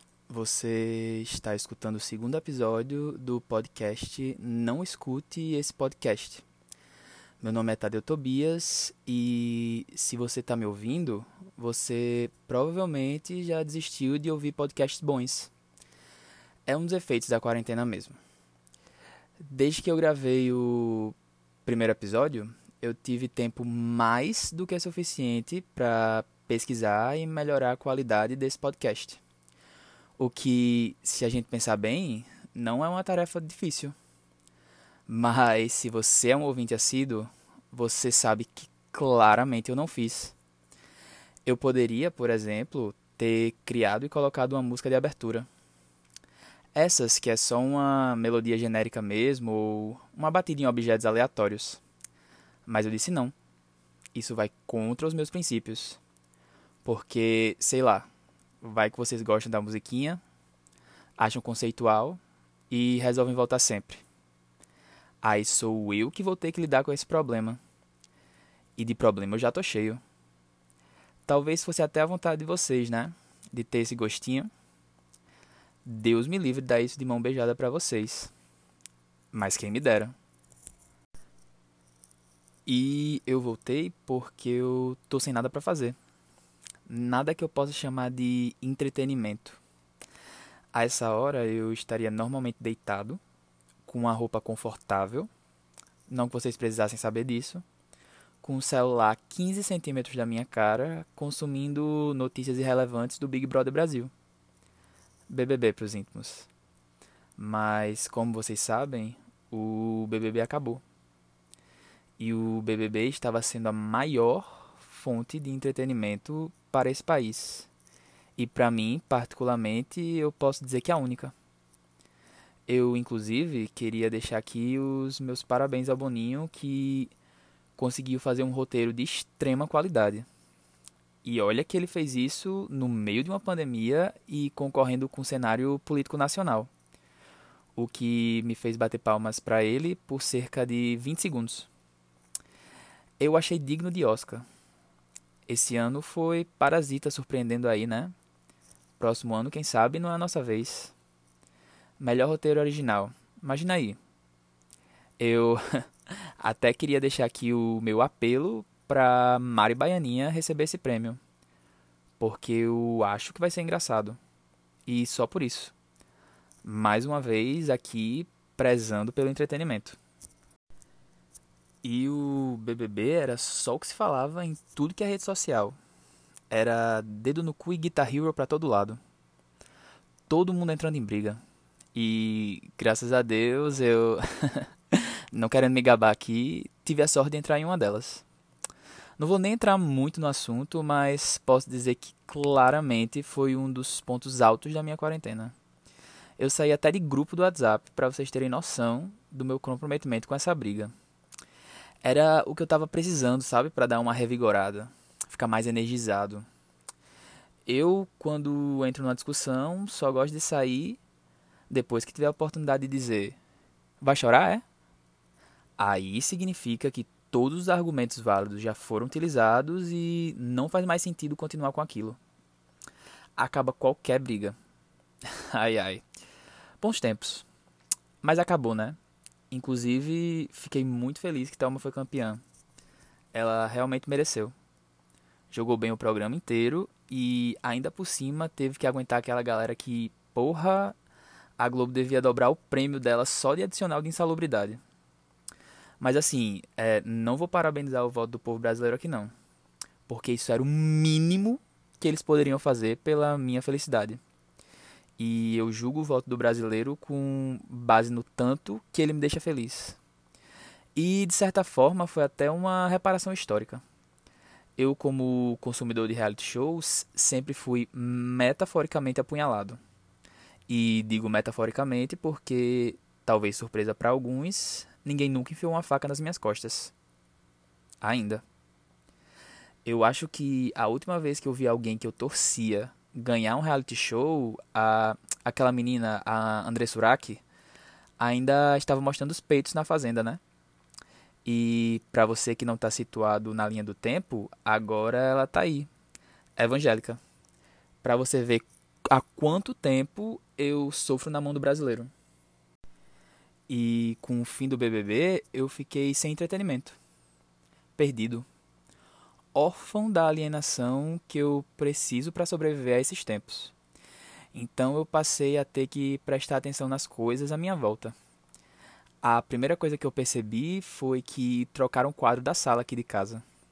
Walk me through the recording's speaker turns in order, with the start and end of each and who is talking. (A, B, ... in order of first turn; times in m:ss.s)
0:00.3-0:06.4 A
0:07.4-0:15.5 A
0:16.6-0:18.2 A
0:19.4-0:29.2 A
0:30.2-0:33.9 A
0:35.1-0:40.4 A
0:41.4-0:45.5 A
0:46.7-0:51.8 A
0:52.6-0:53.3 A
0:54.1-0:56.0 A
0:56.8-0:58.1 A
0:58.6-1:00.2 A
1:01.2-1:04.0 A
1:05.2-1:07.6 A
1:08.8-1:10.0 A
1:11.2-1:14.5 A
1:15.8-1:18.3 A
1:19.3-1:20.1 A
1:22.6-1:26.0 A
1:26.9-1:29.6 A
1:30.7-1:33.2 A
1:33.8-1:35.3 A
1:36.1-1:37.6 A
1:38.4-1:44.1 A
1:45.3-1:46.5 A
1:47.4-1:50.8 A
1:52.2-1:57.7 A
1:58.4-2:01.3 A
2:02.7-2:07.1 A
2:07.8-2:10.2 A
2:11.2-2:16.7 A
2:17.8-2:21.7 A
2:23.2-2:24.4 A
2:25.5-2:28.1 A
2:29.0-2:30.9 A
2:32.0-2:34.0 A
2:35.2-2:35.8 A
2:36.4-2:41.2 A
2:42.2-2:44.2 A
2:44.8-2:45.7 A
2:46.6-2:50.0 A
2:51.8-2:55.8 A
2:56.5-2:59.0 A
3:00.3-3:01.4 A
3:01.9-3:08.2 A
3:09.2-3:15.5 A
3:16.4-3:20.9 A
3:22.0-3:26.4 A
3:27.6-3:31.0 A
3:31.7-3:33.4 A
3:34.0-3:34.6 A
3:35.8-3:42.2 A
3:43.4-3:44.6 A
3:45.3-3:46.0 A
3:46.8-3:47.4 A
3:48.2-3:49.0 A
3:49.5-3:52.4 A
3:53.3-3:54.5 A
3:55.5-4:01.0 A
4:01.6-4:04.8 A
4:06.0-4:09.3 A
4:10.1-4:14.2 A
4:15.2-4:20.0 A
4:21.0-4:23.8 A
4:24.8-4:29.8 A
4:30.7-4:36.9 A
4:38.0-4:38.4 A
4:39.8-4:47.4 A
4:48.2-4:50.4 A
4:51.4-4:55.9 A
4:56.6-4:57.2 A
4:58.0-5:02.1 A
5:03.7-5:07.0 A
5:08.0-5:08.4 A
5:09.5-5:13.7 A
5:14.5-5:18.2 A
5:19.2-5:23.4 A